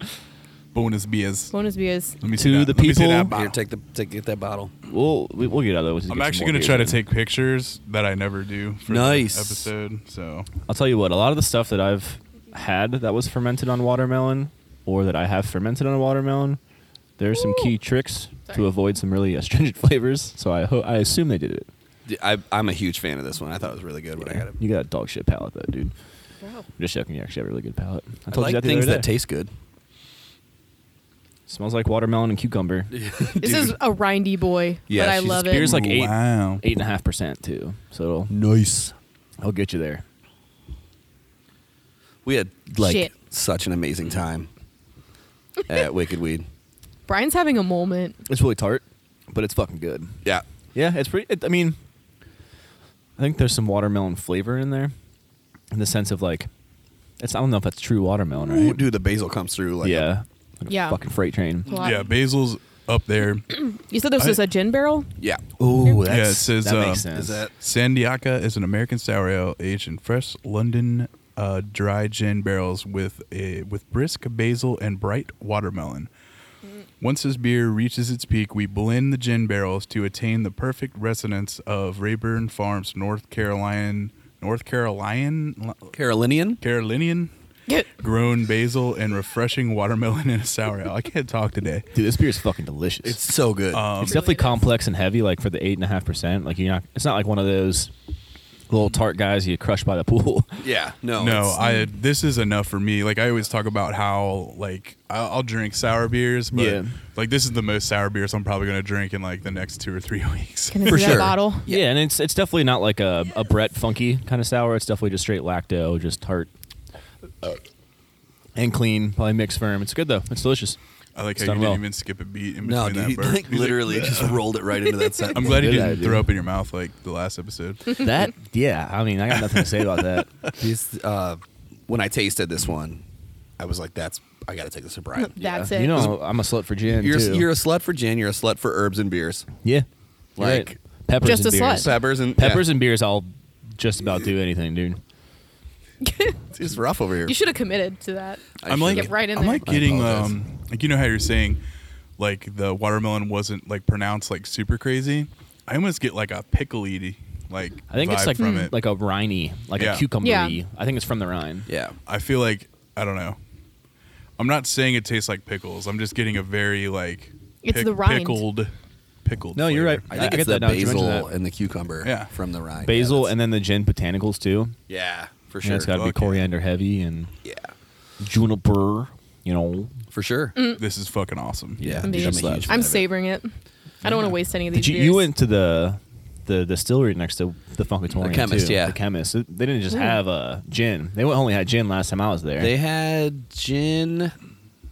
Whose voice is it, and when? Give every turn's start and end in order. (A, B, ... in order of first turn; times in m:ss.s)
0:00.7-0:01.5 A
0:01.5-0:02.2 B
0:02.2-0:03.6 A
0:02.3-0:03.3 C
0:03.3-0:04.7 D
0:04.8-0:07.0 C
0:06.1-0:10.5 A
0:08.9-0:09.7 D
0:10.7-0:16.6 C
0:17.2-0:21.7 C
0:17.3-0:17.7 B
0:22.0-0:24.6 D
0:24.2-0:25.9 C
0:26.8-0:29.1 C
0:28.3-0:29.5 D
0:31.5-0:32.9 C
0:32.9-0:33.8 D
0:33.4-0:35.7 B
0:34.9-0:35.5 D
0:35.2-0:38.3 C
0:35.5-0:36.6 A
0:38.3-0:38.9 D
0:39.4-0:40.0 C
0:42.2-0:44.5 D
0:42.8-0:43.1 B
0:45.7-0:46.4 D
0:47.1-0:48.2 B
0:48.2-0:50.2 C
0:50.7-0:51.8 C
0:53.2-0:54.9 C
0:55.7-0:56.5 C
0:57.2-0:58.8 C
0:58.4-1:00.1 D
0:59.8-1:01.8 C
1:00.7-1:01.0 B
1:01.6-1:02.1 B
1:01.8-1:03.6 A
1:03.5-1:05.1 B
1:05.6-1:07.4 C
1:05.9-1:16.1 A
1:07.1-1:07.5 D
1:17.0-1:26.0 A
1:25.9-1:26.6 D
1:26.6-1:27.3 A
1:27.9-1:31.9 A
1:31.9-1:33.2 C
1:33.0-1:33.9 D
1:33.7-1:34.3 A
1:34.0-1:37.9 C
1:34.0-1:34.7 B
1:38.7-1:40.6 C
1:40.6-1:41.6 D
1:41.2-1:51.2 A
1:41.6-1:41.9 B
1:46.5-1:46.9 C
1:50.7-1:51.6 B
1:50.8-1:51.8 D
1:51.7-1:56.5 C
1:58.6-2:00.8 C
2:01.1-2:04.4 A
2:01.4-2:01.8 C
2:02.6-2:05.9 D
2:05.3-2:08.0 A
2:05.4-2:06.4 C
2:08.0-2:10.3 C
2:10.6-2:13.0 D
2:13.6-2:15.4 D
2:15.2-2:16.1 B
2:15.4-2:17.5 C
2:15.9-2:16.1 D
2:17.0-2:19.5 D
2:20.4-2:20.8 D
2:20.4-2:25.0 C
2:21.2-2:21.9 B
2:21.7-2:22.7 D
2:26.0-2:26.4 B
2:26.5-2:27.4 D
2:27.2-2:29.7 B
2:28.6-2:30.4 D
2:28.6-2:31.6 A
2:32.2-2:38.7 A
2:37.9-2:41.7 C
2:38.4-2:38.7 B
2:39.8-2:40.0 A
2:40.2-2:40.6 B
2:41.7-2:42.0 D
2:42.0-2:43.4 A
2:44.4-2:48.7 A
2:47.6-2:48.4 B
2:49.2-2:50.0 A
2:49.5-2:51.3 C
2:50.1-2:53.3 D
2:52.0-2:52.3 A
2:52.8-2:54.8 C
2:54.9-2:56.0 D
2:55.6-2:57.3 C
2:55.9-2:56.4 A
2:57.4-2:57.7 D
2:58.2-2:59.9 C
3:00.1-3:00.6 D
3:00.8-3:01.8 A
3:01.8-3:02.8 C
3:01.8-3:03.1 D
3:02.0-3:03.5 B
3:04.0-3:05.3 B
3:04.7-3:12.7 C
3:08.2-3:09.0 D
3:09.9-3:10.2 B
3:12.6-3:14.3 D